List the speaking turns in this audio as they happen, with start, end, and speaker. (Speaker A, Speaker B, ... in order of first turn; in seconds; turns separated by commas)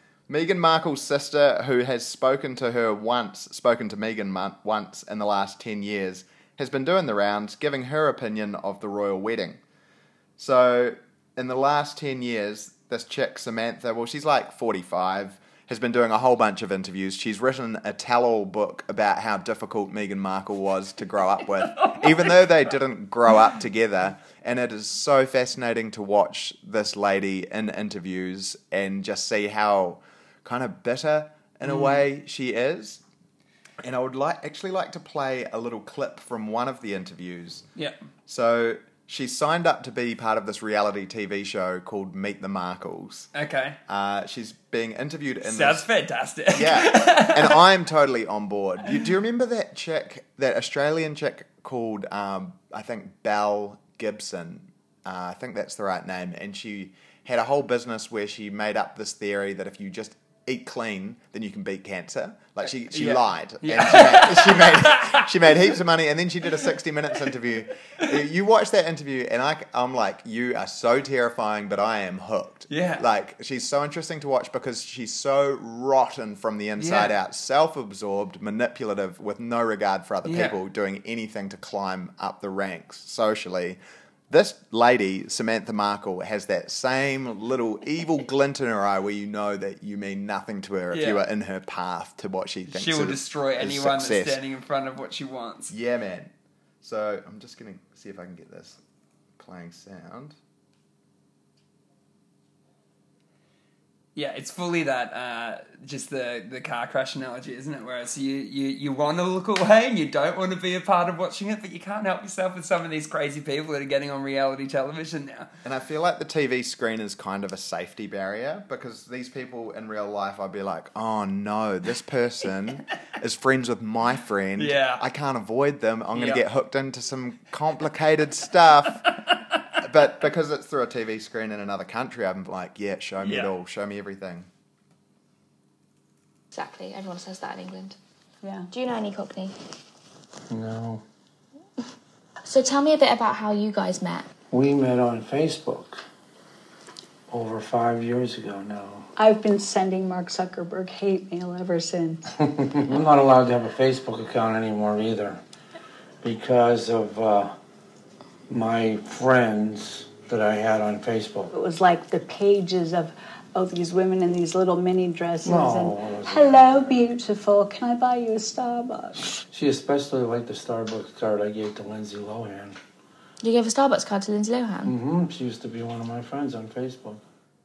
Speaker A: 0.3-9.6, Speaker A: 10.4-33.0, Speaker B: 31.6-32.0, Speaker A: 33.8-37.6, Speaker A: 38.3-43.3, Speaker B: 43.3-43.8, Speaker A: 43.9-45.9, Speaker B: 45.4-47.6, Speaker A: 46.5-94.4, Speaker B: 62.9-65.3, Speaker B: 72.7-73.0, Speaker B: 76.8-77.2, Speaker B: 80.2-80.6, Speaker B: 90.9-91.2, Speaker B: 92.7-95.7, Speaker A: 95.7-96.3, Speaker A: 96.8-98.8, Speaker A: 99.4-100.4, Speaker B: 104.2-115.5, Speaker A: 115.6-129.0, Speaker B: 124.6-125.0, Speaker B: 126.1-126.4, Speaker A: 129.8-134.5, Speaker B: 133.2-133.5, Speaker C: 136.5-138.0, Speaker C: 138.7-139.5, Speaker D: 140.5-141.0, Speaker C: 142.5-144.3, Speaker D: 144.5-146.0, Speaker D: 147.3-149.1, Speaker E: 149.2-152.2, Speaker D: 152.4-155.4, Speaker D: 156.2-157.5, Speaker D: 158.5-161.5, Speaker E: 161.5-169.3, Speaker D: 165.4-167.0, Speaker D: 169.2-172.8, Speaker C: 173.4-174.9, Speaker D: 174.9-177.2